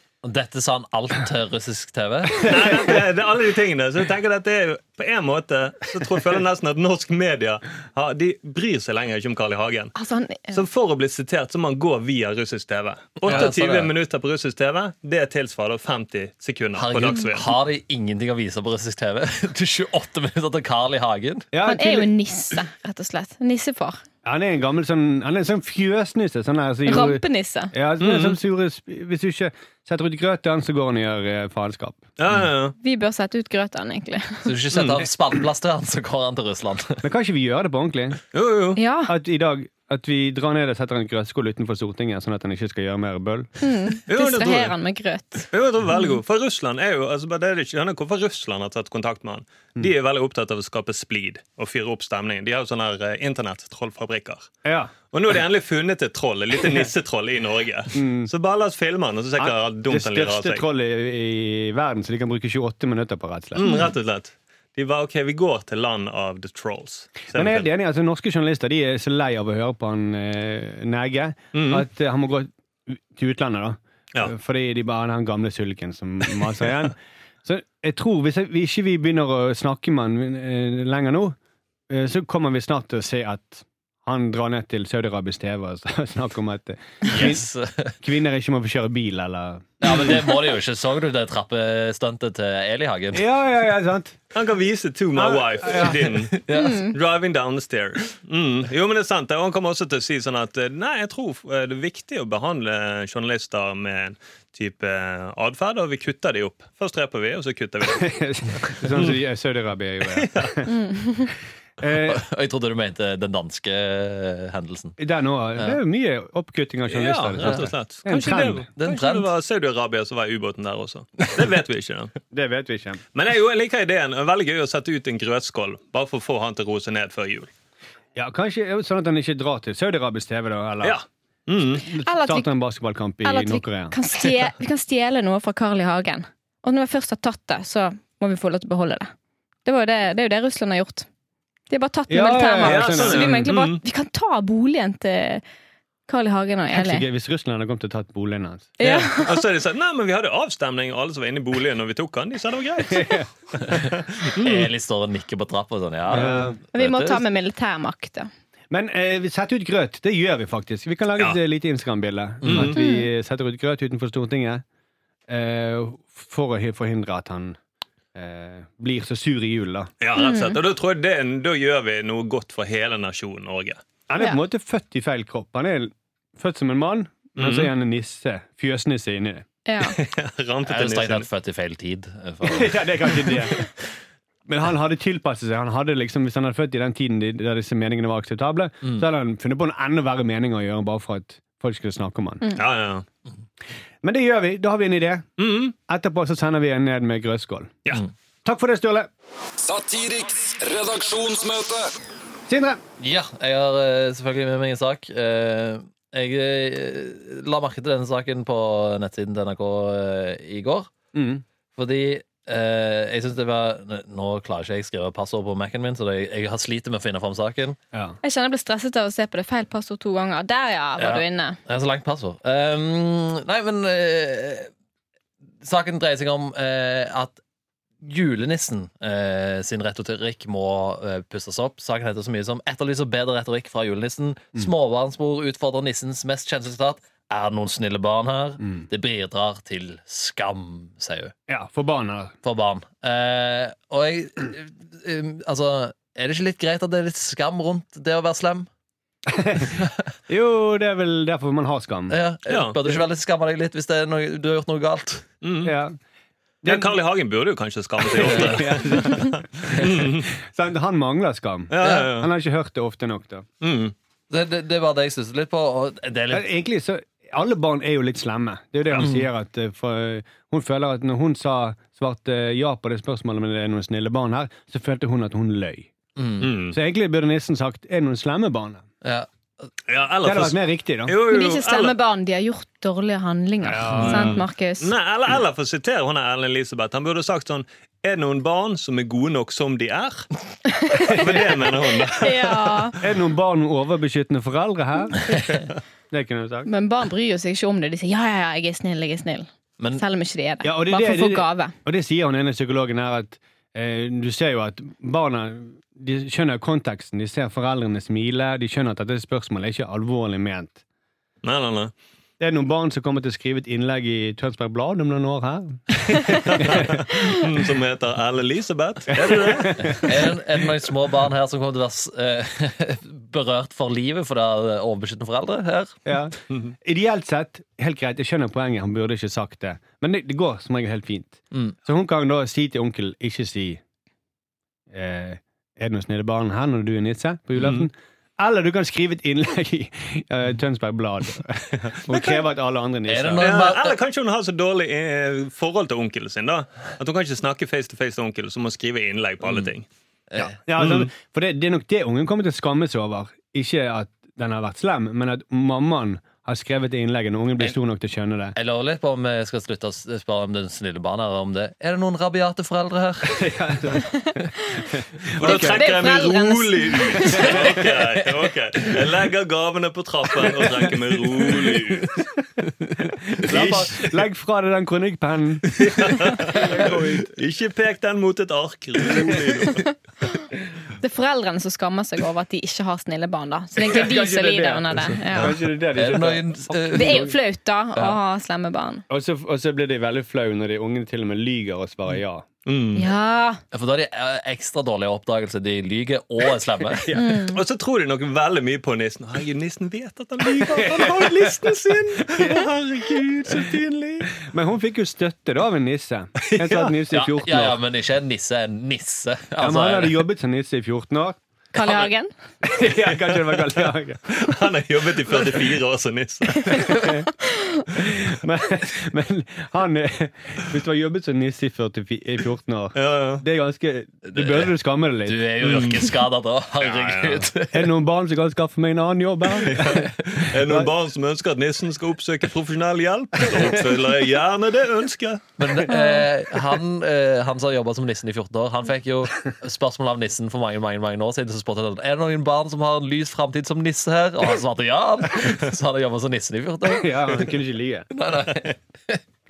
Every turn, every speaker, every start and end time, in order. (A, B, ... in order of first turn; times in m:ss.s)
0:00.2-0:02.7 A
0:02.4-0:10.0 B
0:10.0-0:10.6 C
0:10.5-0:17.6 B
0:13.2-0:13.9 A
0:16.8-0:21.5 A
0:21.5-0:22.1 D
0:21.6-0:24.0 C
0:24.2-0:32.0 D
0:26.9-0:27.7 C
0:28.0-0:28.4 B
0:32.2-0:32.8 B
0:32.8-0:34.5 C
0:34.5-0:37.0 A
0:34.7-0:35.0 B
0:37.0-0:38.2 D
0:38.3-0:38.8 B
0:38.8-0:39.2 C
0:39.1-0:43.5 D
0:43.6-0:46.2 C
0:44.1-0:44.8 B
0:45.5-0:54.5 B
0:54.6-0:54.9 D
0:55.1-1:00.6 B
0:57.9-0:58.3 D
0:59.4-1:03.7 D
1:03.6-1:07.7 B
1:03.6-1:03.9 C
1:07.3-1:21.4 D
1:11.5-1:11.8 B
1:21.9-1:27.5 D
1:27.0-1:27.9 A
1:28.0-1:30.3 D
1:29.8-1:33.3 A
1:33.1-1:34.2 D
1:34.3-1:48.1 B
1:35.1-1:36.2 D
1:36.4-1:36.8 A
1:36.5-1:37.0 C
1:47.9-1:50.7 D
1:48.6-1:49.2 B
1:50.1-1:50.6 B
1:50.7-1:51.3 C
1:51.8-1:52.2 D
1:52.0-1:55.0 A
1:55.0-1:58.7 D
1:56.9-2:02.1 B
1:57.4-1:57.7 A
1:58.8-1:59.3 A
2:02.3-2:03.0 D
2:03.2-2:07.5 B
2:08.2-2:11.0 D
2:10.8-2:11.8 B
2:11.8-2:13.9 D
2:11.9-2:12.5 C
2:13.2-2:19.1 C
2:19.6-2:21.1 C
2:21.7-2:25.4 C
2:22.1-2:23.4 D
2:22.6-2:23.8 B
2:26.1-2:27.1 C
2:26.7-2:28.8 D
2:28.8-2:29.4 C
2:28.8-2:34.7 B
2:32.9-2:33.3 D
2:34.4-2:37.2 A
2:36.1-2:36.6 D
2:36.7-2:38.3 C
2:38.7-2:44.6 D
2:42.4-2:42.8 A
2:42.5-2:42.8 B
2:42.8-2:43.1 C
2:45.3-2:47.6 D
2:48.2-2:49.9 D
2:50.0-2:53.8 B
2:50.2-2:50.6 C
2:54.1-2:59.5 D
2:57.4-2:57.7 B
2:59.7-3:00.0 C
2:59.8-3:01.3 B
3:00.6-3:03.5 A
3:02.4-3:03.6 D
3:04.5-3:12.4 D
3:12.6-3:13.0 B
3:14.0-3:15.3 D
3:15.4-3:15.8 B
3:15.9-3:17.8 D
3:18.4-3:19.1 D
3:19.6-3:21.9 E
3:22.5-3:22.8 D
3:23.0-3:30.9 A
3:31.1-3:31.4 D
3:31.8-3:37.8 A
3:38.2-3:41.6 C
3:41.0-3:44.7 A
3:45.6-3:47.4 A
3:48.0-4:01.3 A
4:01.5-4:02.4 D
4:02.4-4:08.7 A
4:09.3-4:12.2 D
4:12.1-4:15.3 A
4:12.5-4:12.8 B
4:15.4-4:15.7 B
4:15.6-4:16.0 D
4:16.6-4:16.9 D
4:16.6-4:20.3 B
4:18.2-4:23.5 D
4:18.2-4:18.6 A
4:21.7-4:22.3 B
4:21.8-4:22.1 A
4:23.6-4:23.9 B
4:24.3-4:26.4 A
4:26.3-4:35.9 D
4:29.0-4:29.2 A
4:36.2-4:36.5 A
4:36.4-4:36.8 B
4:36.7-4:38.8 D
4:39.0-4:39.7 A
4:39.9-4:42.0 B
4:40.2-4:41.2 D
4:41.3-4:44.9 C
4:43.6-4:44.4 D
4:43.9-4:44.4 A
4:44.0-4:50.3 B
4:50.7-4:51.2 C
4:50.9-4:52.9 B
4:52.1-4:53.0 C
4:53.0-4:55.5 D
4:56.1-4:56.7 D
4:56.7-5:01.7 C
5:00.6-5:10.8 D
5:11.4-5:11.9 B
5:12.4-5:17.0 D
5:16.4-5:20.0 B
5:19.2-5:20.2 D
5:19.8-5:26.0 A
5:26.1-5:33.8 D
5:34.9-5:43.6 D
5:42.0-5:42.4 B
5:43.1-5:44.0 A
5:43.4-5:49.9 B
5:49.4-5:49.7 A
5:50.3-5:50.6 A
5:50.4-5:58.6 D
5:50.8-5:51.1 B
5:58.6-6:04.0 A
6:03.3-6:04.2 D
6:05.2-6:05.9 D
6:05.4-6:12.2 B
6:05.4-6:07.5 C
6:07.4-6:07.8 D
6:07.4-6:08.2 A
6:13.4-6:17.3 D
6:13.5-6:14.1 B
6:15.8-6:19.9 B
6:21.0-6:25.5 C
6:23.8-6:27.4 D
6:25.4-6:27.3 A
6:26.9-6:29.0 C
6:29.1-6:32.4 D
6:32.7-6:33.1 B
6:33.0-6:33.6 C
6:33.7-6:37.1 A
6:37.1-6:37.4 D
6:37.1-6:37.6 C
6:37.5-6:44.4 B
6:40.6-6:42.7 D
6:44.4-6:47.8 D
6:46.4-6:46.9 B
6:47.1-6:50.2 A
6:49.6-6:51.4 D
6:51.7-6:52.3 C
6:51.8-6:52.1 B
6:52.6-6:54.4 D
6:53.4-6:53.8 B
6:54.3-6:56.9 B
6:56.7-6:57.9 C
6:56.8-6:57.3 D
6:57.9-7:05.4 D
7:03.0-7:03.4 B
7:04.3-7:04.7 A
7:05.2-7:07.9 A
7:05.6-7:06.2 B
7:06.8-7:07.5 B
7:07.7-7:10.9 D
7:09.6-7:15.5 B
7:15.6-7:27.5 A
7:15.9-7:16.3 C
7:26.8-7:28.1 D
7:28.1-7:29.2 A